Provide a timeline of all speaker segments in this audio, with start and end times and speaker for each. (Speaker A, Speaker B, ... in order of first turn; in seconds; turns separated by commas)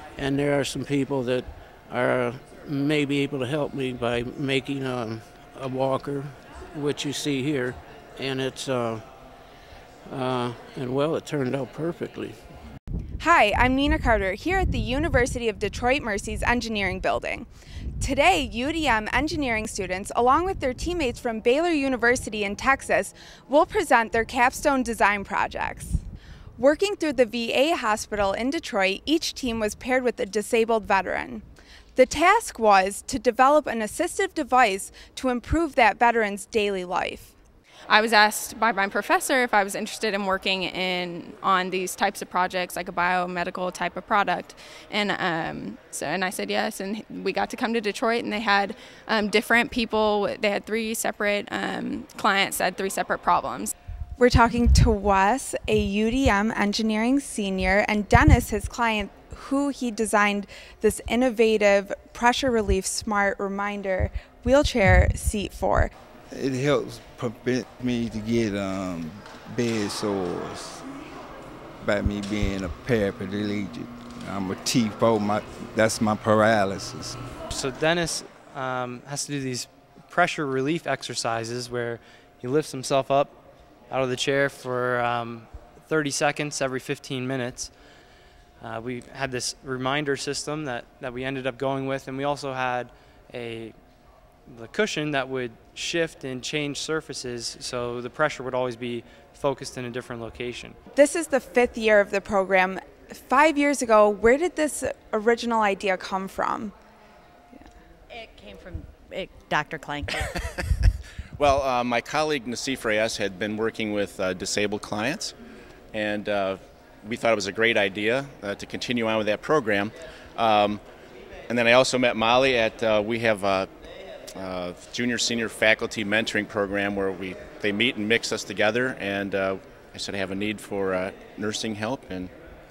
Speaker A: 0.1-9.1, Speaker A: 10.1-12.4, Speaker B: 13.2-17.5, Speaker B: 18.0-26.0, Speaker B: 26.6-31.4, Speaker B: 31.9-37.3, Speaker C: 37.9-53.7, Speaker B: 54.2-65.9, Speaker D: 66.3-70.8, Speaker D: 71.8-77.2, Speaker E: 77.5-83.4, Speaker E: 83.9-87.8, Speaker E: 88.6-93.8, Speaker E: 94.5-100.8, Speaker B: 100.9-106.7, Speaker F: 108.1-110.3, Speaker G: 111.4-115.3, Speaker G: 115.9-120.8, Speaker G: 121.5-123.7, Speaker G: 124.4-132.3